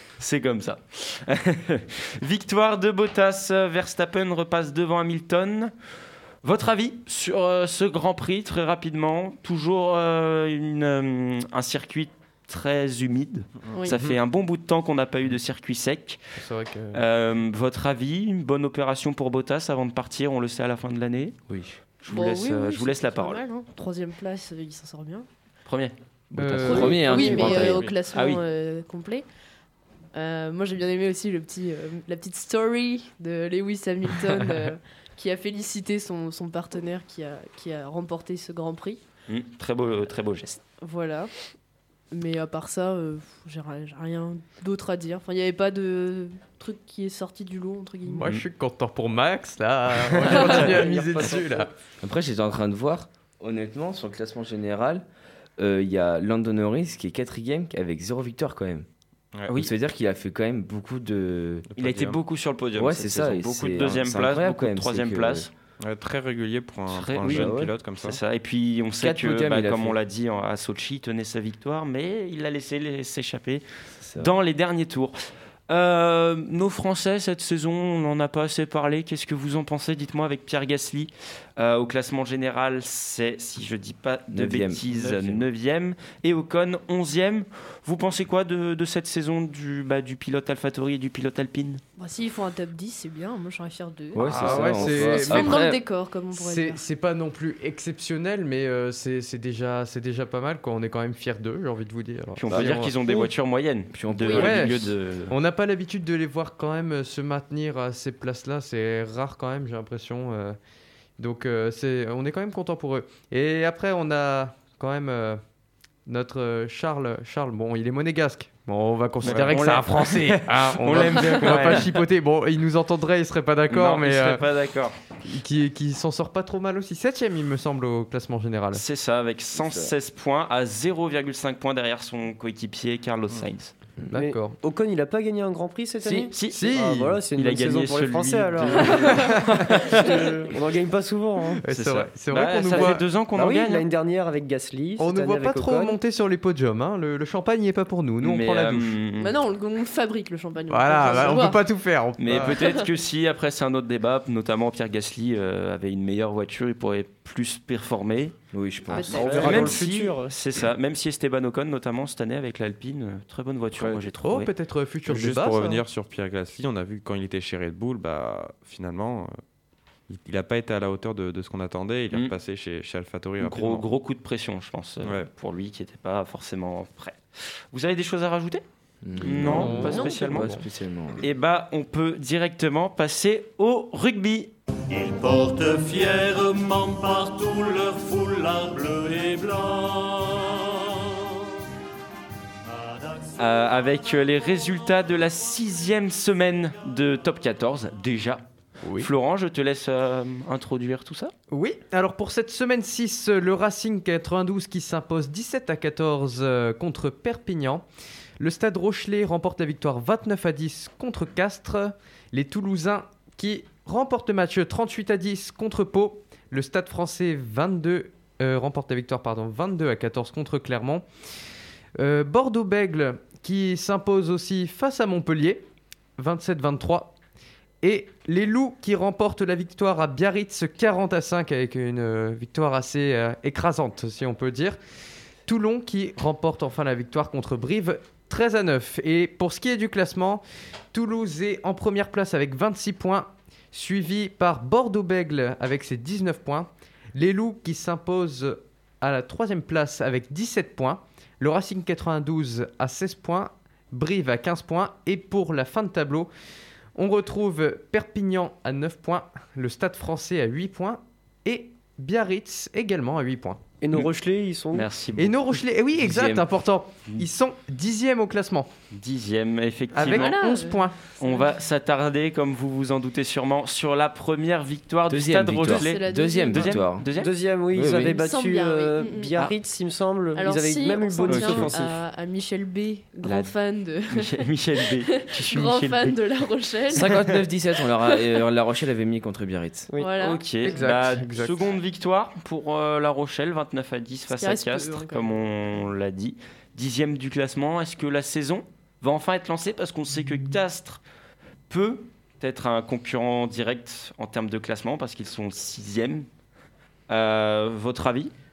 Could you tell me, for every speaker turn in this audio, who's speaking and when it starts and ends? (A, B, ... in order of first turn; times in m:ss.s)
0:00.2-0:05.7 A
0:06.4-0:16.2 A
0:16.4-0:17.0 B
0:16.9-0:21.4 A
0:21.5-0:21.8 C
0:22.0-0:23.4 A
0:22.1-0:25.3 D
0:25.6-0:25.9 A
0:26.3-0:27.5 B
0:26.3-0:27.9 C
0:26.6-0:29.2 D
0:27.8-0:28.4 A
0:30.1-0:39.0 D
0:39.3-0:40.6 A
0:40.8-0:41.3 D
0:42.1-0:48.2 D
0:48.0-0:51.7 B
0:50.2-0:51.7 E
0:52.0-0:55.0 C
0:55.6-0:58.8 C
0:59.5-1:01.7 C
1:01.7-1:02.2 F
1:01.8-1:05.5 A
1:02.8-1:05.5 C
1:05.8-1:08.2 F
1:06.9-1:13.6 A
1:07.2-1:07.8 C
1:09.0-1:10.0 C
1:14.0-1:14.3 C
1:14.2-1:31.8 A
1:24.3-1:25.4 C
1:32.0-1:36.8 D
1:34.1-1:35.8 C
1:34.2-1:35.7 B
1:34.3-1:34.6 A
1:36.3-1:43.0 B
1:42.4-1:45.3 A
1:42.5-1:43.2 C
1:43.9-1:44.8 C
1:44.3-1:50.6 B
1:51.2-1:55.4 B
1:56.0-2:04.4 B
1:59.2-2:02.0 A
1:59.2-1:59.5 F
2:03.7-2:04.9 A
2:05.2-2:08.8 B
2:08.7-2:13.7 A
2:09.6-2:09.9 C
2:14.1-2:14.6 B
2:14.1-2:21.6 E
2:16.1-2:16.7 A
2:16.5-2:17.2 B
2:17.3-2:20.3 A
2:19.2-2:19.7 B
2:21.6-2:23.0 B
2:21.7-2:23.8 A
2:22.7-2:26.0 E
2:25.0-2:29.0 B
2:28.2-2:29.3 A
2:29.2-2:31.6 D
2:30.7-2:32.6 B
2:32.2-2:38.3 A
2:32.5-2:32.8 D
2:38.5-2:39.8 C
2:38.9-2:39.6 D
2:39.0-2:40.3 E
2:39.0-2:44.5 A
2:44.2-2:45.8 B
2:45.0-2:49.3 F
2:50.1-2:53.8 F
2:53.4-2:57.2 A
2:55.0-2:55.3 F
2:57.7-2:58.6 A
2:59.0-3:01.2 C
2:59.2-3:00.5 A
2:59.4-3:00.7 B
2:59.9-3:00.3 D
3:01.2-3:04.5 A
3:04.9-3:11.3 G
3:12.7-3:13.4 G
3:13.4-3:18.4 A
3:18.8-3:19.1 B
3:19.0-3:21.3 A
3:21.5-3:27.8 B
3:28.4-3:41.1 B
3:42.0-3:45.6 B
3:46.2-3:47.1 B
3:47.8-3:54.8 B
3:55.4-4:16.3 B
4:17.0-4:23.6 B
4:23.8-4:24.9 E
4:24.7-4:25.5 A
4:25.2-4:28.7 B
4:26.0-4:26.4 C
4:28.9-4:30.4 A
4:29.9-4:31.0 B
4:30.0-4:31.5 D
4:31.2-4:37.3 A
4:35.1-4:37.0 C
4:35.6-4:36.8 D
4:37.1-4:41.8 E
4:37.7-4:38.2 C
4:37.9-4:39.3 D
4:40.4-4:47.2 D
4:41.3-4:41.7 A
4:43.2-4:43.5 A
4:44.1-4:46.2 A
4:46.9-4:49.9 C
4:49.9-4:50.2 E
4:50.0-4:50.4 D
4:50.2-5:01.0 A
4:50.6-4:51.7 B
4:54.3-4:55.5 D
5:01.7-5:06.3 A
5:07.1-5:08.3 A